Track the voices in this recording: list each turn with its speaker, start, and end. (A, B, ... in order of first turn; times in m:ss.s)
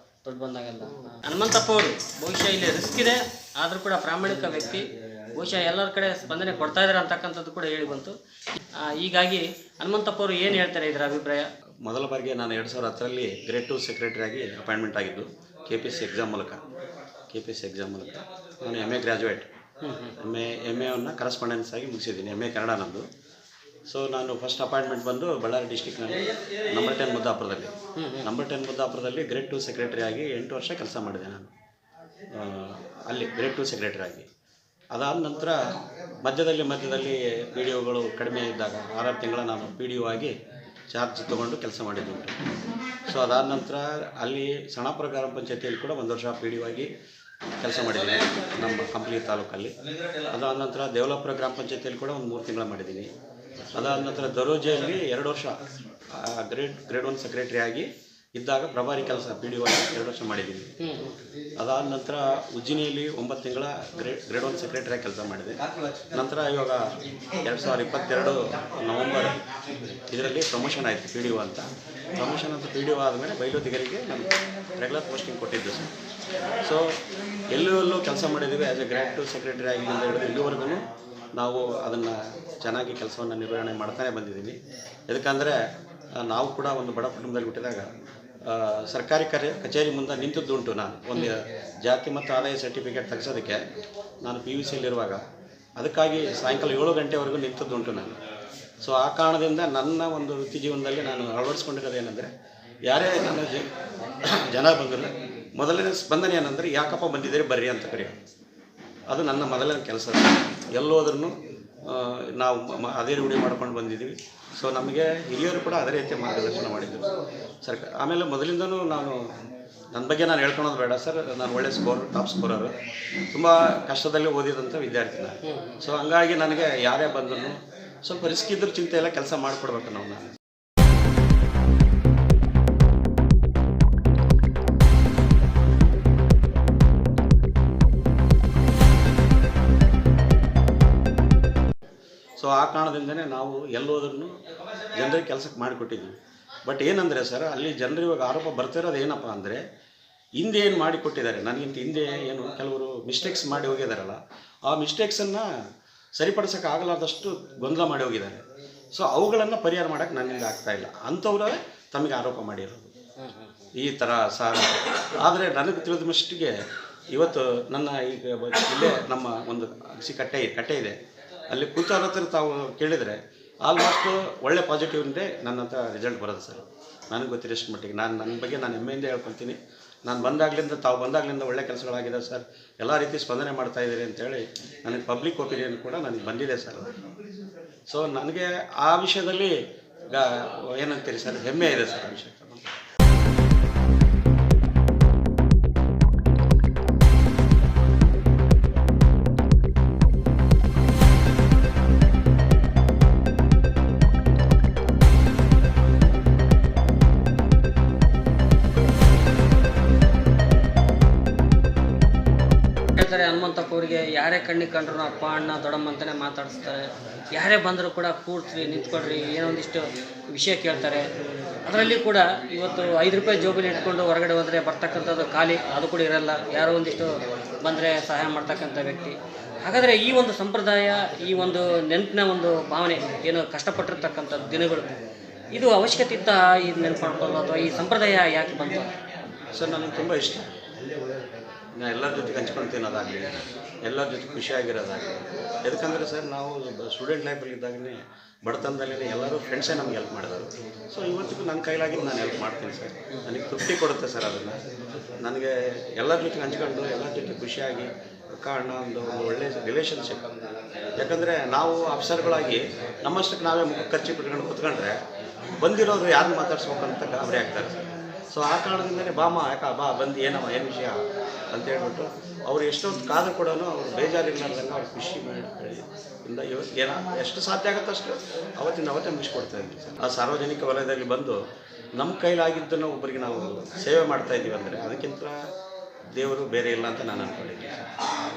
0:00.2-0:08.2 A
0:08.8-0:11.5 A
0:11.8-0:16.6 B
0:17.3-0:19.5 B
0:19.8-0:20.1 A
0:20.2-0:23.1 B
0:23.9-0:31.5 B
0:28.0-0:28.3 A
0:32.3-0:34.3 B
0:34.9-0:40.3 B
0:40.9-0:42.4 B
0:43.1-0:46.9 B
0:47.6-0:49.7 B
0:50.3-0:53.1 B
0:53.7-0:55.6 B
0:56.1-1:00.7 B
1:00.8-1:01.1 A
1:01.6-1:05.6 B
1:06.1-1:06.8 B
1:07.4-1:09.4 B
1:10.1-1:15.9 B
1:16.6-1:17.0 B
1:17.5-1:20.8 B
1:21.4-1:24.6 B
1:25.1-1:25.6 B
1:26.2-1:27.9 B
1:28.4-1:33.6 B
1:34.2-1:35.2 B
1:35.8-1:38.2 B
1:38.8-1:42.3 B
1:42.9-1:43.7 B
1:44.2-1:48.2 B
1:49.1-1:51.4 B
1:51.9-1:57.1 B
1:57.6-1:59.2 B
1:59.9-2:02.7 B
2:03.3-2:10.3 B
2:05.4-2:05.8 A
2:22.4-2:24.3 B
2:24.9-2:26.1 B
2:26.6-2:29.6 B
2:30.4-2:35.4 B
2:36.2-2:38.4 B
2:38.9-2:42.9 B
2:43.2-2:43.7 A
2:43.8-2:46.5 B
2:47.1-2:51.0 B
2:51.5-3:06.8 B
3:07.9-3:09.5 B
3:10.1-3:12.7 B
3:33.0-3:41.1 A
3:41.6-3:54.9 A
3:55.5-3:58.9 A
3:59.5-4:00.5 B
4:01.8-4:14.6 B
4:15.2-4:20.2 B
4:21.0-4:25.0 B
4:25.6-4:31.0 B
4:31.5-4:41.4 B
4:42.0-4:45.3 B
4:46.1-4:47.9 B